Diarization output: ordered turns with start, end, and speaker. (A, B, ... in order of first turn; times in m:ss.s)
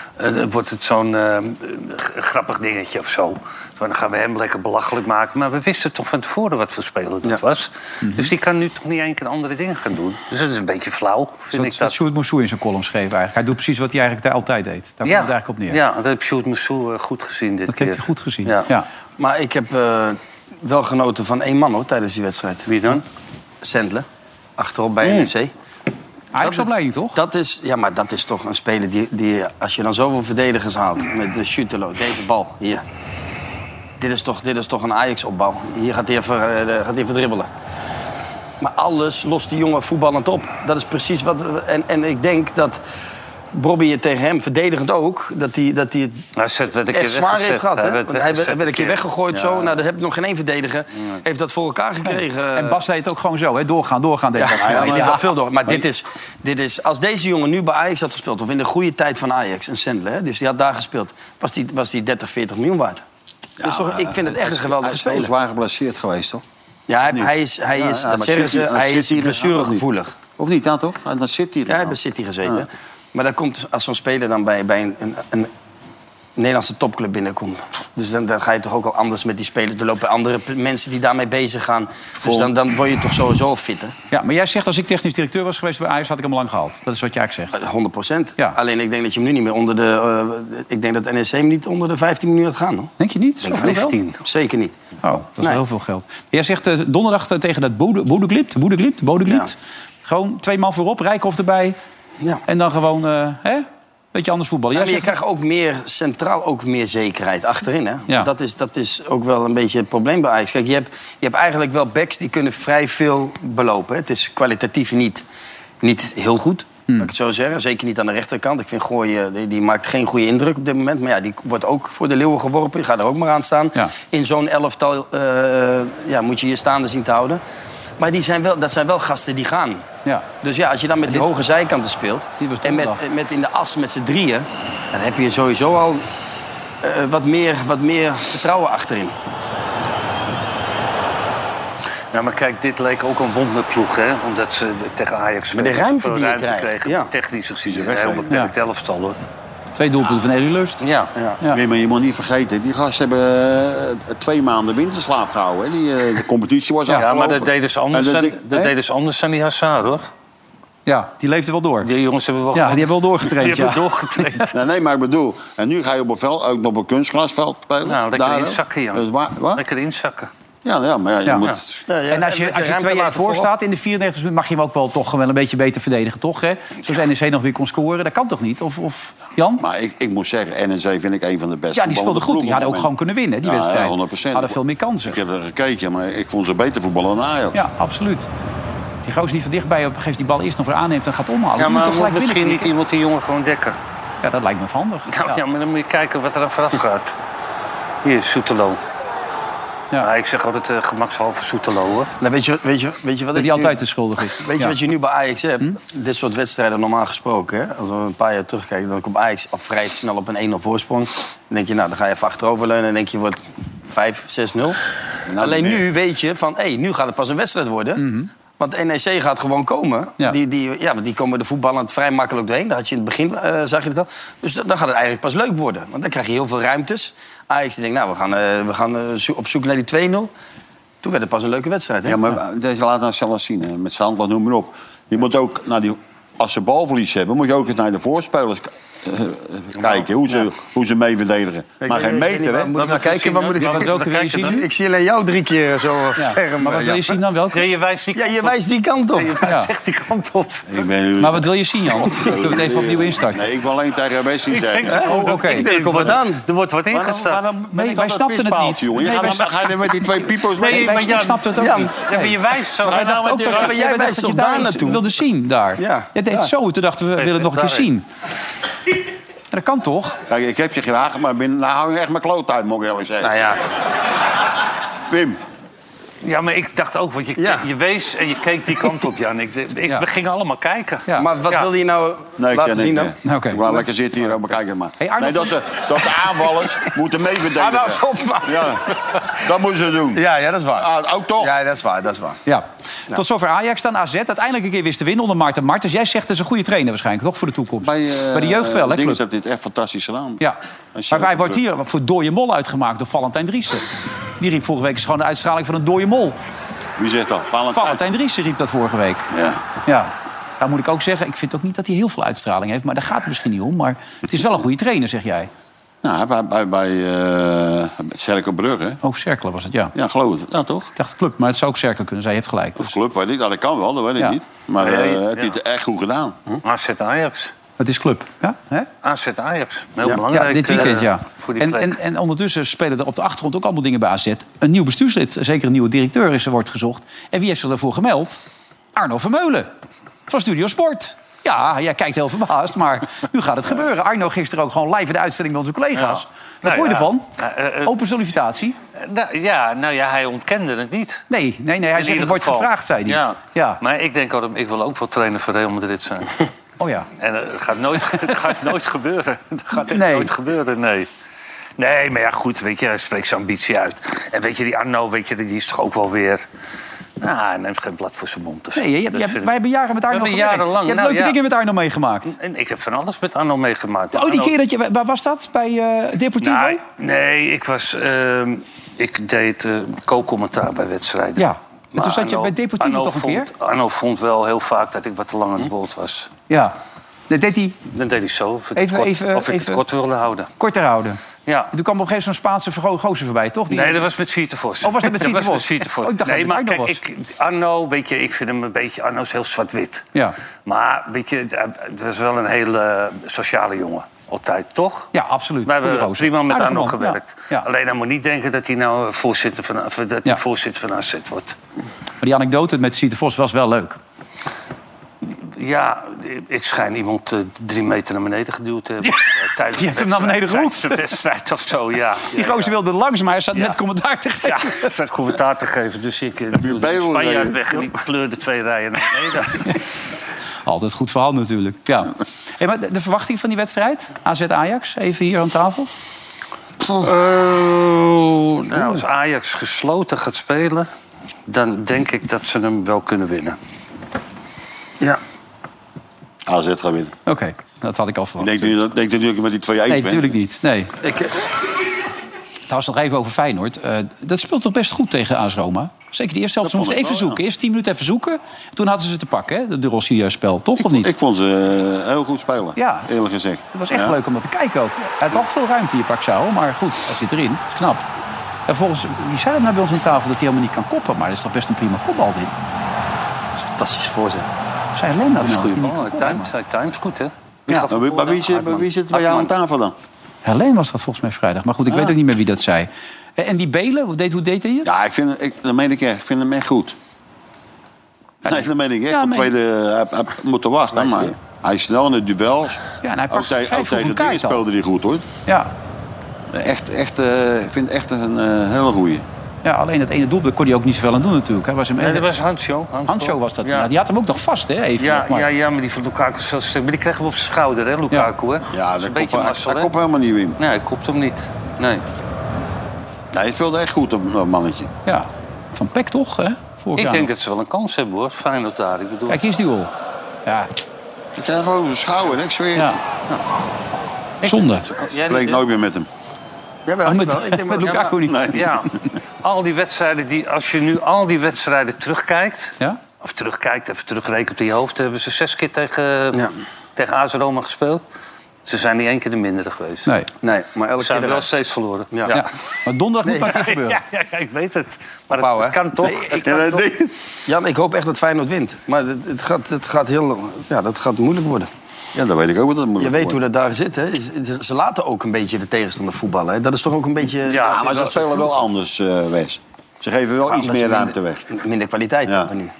0:00.2-0:12.0 A
0:08.0-0:08.3 B
0:11.5-0:15.8 B
0:15.0-0:18.7 A
0:17.7-0:18.9 B
0:19.2-0:23.0 C
0:22.7-0:23.0 A
0:23.6-0:24.1 C
0:24.6-0:25.5 C
0:25.0-0:25.3 A
0:26.3-0:27.2 B
0:26.4-0:32.8 C
0:34.0-0:37.5 C
0:38.6-0:42.8 C
0:43.5-0:46.2 C
0:46.4-0:49.0 A
0:46.9-0:52.8 C
0:49.4-0:49.6 D
0:52.0-0:55.3 B
0:54.4-1:03.0 C
0:54.6-0:55.8 D
1:03.6-1:06.4 D
1:03.6-1:05.3 C
1:06.9-1:10.2 C
1:07.1-1:09.8 D
1:10.4-1:12.7 D
1:11.7-1:15.5 C
1:16.4-1:23.9 C
1:24.1-1:27.6 B
1:27.5-1:34.8 C
1:33.0-1:34.0 B
1:33.6-1:34.2 A
1:35.0-1:41.8 B
1:42.5-1:45.2 B
1:44.7-1:55.2 C
1:55.8-2:07.4 C
2:08.0-2:09.9 C
2:10.4-2:16.0 C
2:12.4-2:13.0 B
2:16.8-2:19.1 C
2:22.1-2:29.2 A
2:25.5-2:27.1 C
2:27.6-2:28.3 D
2:29.8-2:30.8 B
2:30.8-2:31.1 A
2:31.5-2:38.7 D
2:36.9-2:40.1 A
2:40.9-2:41.9 B
2:41.8-2:44.5 A
2:42.5-2:44.5 B
2:44.5-2:49.6 D
2:47.8-2:50.3 A
2:50.6-2:51.8 D
2:51.9-2:53.5 C
2:52.1-2:59.6 B
2:59.6-3:02.9 D
3:01.7-3:05.2 B
3:03.4-3:07.6 D
3:07.5-3:08.3 B
3:09.0-3:12.7 B
3:11.6-3:13.8 A
3:14.2-3:15.4 B
3:15.1-3:17.2 A
3:18.0-3:18.8 A
3:20.0-3:22.1 A
3:22.2-3:23.8 C
3:23.4-3:24.8 B
3:24.3-3:34.8 C
3:35.3-3:35.9 D
3:35.4-3:38.0 C
3:38.0-3:38.3 B
3:38.6-3:50.3 C
3:51.0-3:52.2 C
3:52.0-4:02.8 D
3:59.8-4:00.1 A
4:01.8-4:07.2 C
4:02.8-4:04.6 A
4:03.6-4:04.6 B
4:06.2-4:07.6 B
4:07.5-4:08.6 A
4:08.2-4:09.4 C
4:09.1-4:10.7 A
4:09.4-4:09.7 B
4:10.7-4:15.1 D
4:11.2-4:13.4 B
4:14.5-4:17.5 A
4:14.9-4:16.4 C
4:15.0-4:15.7 B
4:16.9-4:21.3 D
4:17.7-4:19.7 B
4:20.6-4:23.1 A
4:20.6-4:28.0 B
4:21.6-4:22.0 C
4:22.8-4:23.8 D
4:23.4-4:25.1 C
4:25.8-4:26.1 C
4:27.2-4:27.9 A
4:29.5-4:30.2 B
4:30.3-4:33.4 D
4:33.2-4:33.6 C
4:35.1-4:35.4 D
4:36.2-4:41.7 A
4:37.4-4:37.7 C
4:41.2-4:43.2 C
4:42.4-4:50.2 D
4:43.2-4:43.6 B
4:45.0-4:45.6 B
4:47.5-4:48.8 C
4:50.1-4:52.4 C
4:50.7-4:51.6 D
4:52.5-4:59.2 B
4:57.8-5:00.4 D
5:00.9-5:01.6 D
5:01.1-5:06.4 B
5:07.0-5:08.0 D
5:07.7-5:09.3 B
5:09.3-5:09.6 D
5:09.8-5:15.5 B
5:16.0-5:19.0 D
5:19.0-5:19.9 B
5:20.0-5:20.9 D
5:21.0-5:22.9 B
5:22.8-5:26.4 D
5:24.8-5:25.6 A
5:26.6-5:27.5 A
5:27.8-5:28.9 B
5:29.0-5:32.0 A
5:30.0-5:31.0 C
5:30.3-5:38.4 B
5:39.0-5:39.7 B
5:40.3-5:47.3 B
5:46.0-5:47.9 A
5:47.8-5:48.8 B
5:49.0-5:51.3 A
5:51.3-5:53.8 B
5:52.0-5:56.4 A
5:56.8-5:57.1 B
5:57.2-6:01.1 A
5:59.9-6:00.3 B
6:01.8-6:06.4 A
6:07.2-6:09.6 A
6:08.8-6:12.3 B
6:10.1-6:11.4 A
6:12.3-6:14.6 A
6:14.1-6:16.8 B
6:16.4-6:26.3 A
6:21.4-6:23.5 B
6:26.5-6:26.8 B
6:27.3-6:27.8 B
6:27.9-6:30.5 A
6:28.8-6:29.8 B
6:30.6-6:31.2 B
6:31.5-6:31.7 A
6:31.7-6:34.1 B
6:33.7-6:40.1 A
6:34.8-6:37.0 B
6:40.6-6:45.1 A
6:45.1-6:47.7 B
6:45.6-6:51.6 A
6:52.2-6:54.0 B
6:55.2-7:02.7 A
6:59.0-7:01.0 B
7:02.3-7:04.9 B
7:04.4-7:09.9 A
7:06.5-7:07.8 D
7:10.7-7:15.9 B
7:16.8-7:20.9 A
7:21.5-7:23.6 A
7:26.5-7:27.2 D
7:27.3-7:28.8 B
7:28.4-7:30.3 D
7:29.9-7:30.9 B
7:31.0-7:31.3 C
7:32.7-7:41.1 B
7:36.6-7:37.4 D
7:40.8-7:44.2 D
7:42.8-7:43.1 B
7:43.7-7:48.1 B
7:48.7-7:52.6 B
7:53.6-7:54.5 C
7:55.0-7:56.5 B
7:55.4-7:59.5 A
7:57.9-8:00.0 D
8:00.4-8:04.9 B
8:01.9-8:02.2 D
8:04.8-8:07.0 D
8:08.4-8:09.5 B
8:08.4-8:15.3 D
8:13.0-8:14.6 B
8:15.5-8:15.7 B
8:16.5-8:19.2 D
8:19.6-8:22.3 B
8:22.0-8:23.9 A
8:23.1-8:25.5 B
8:25.0-8:29.9 A
8:28.7-8:30.6 D
8:30.6-8:32.0 A
8:33.3-8:34.9 D
8:35.1-8:37.3 B
8:37.0-8:39.4 A
8:39.3-8:39.9 B
8:40.5-8:40.7 B
8:41.4-8:43.0 D
8:44.4-8:45.6 A
8:44.4-8:44.9 B
8:45.3-8:46.1 D
8:46.9-8:48.1 C
8:47.0-8:48.7 B
8:47.9-8:58.0 A
8:48.2-8:48.9 D
8:58.6-9:00.1 A
9:00.4-9:01.5 C
9:01.0-9:02.5 A
9:02.3-9:04.0 B
9:03.4-9:06.9 A
9:05.3-9:06.3 C
9:06.1-9:07.2 D
9:07.5-9:11.7 C
9:12.1-9:13.4 D
9:13.0-9:18.5 C
9:17.5-9:17.9 A
9:17.5-9:21.4 D
9:20.5-9:22.7 C
9:22.3-9:22.5 D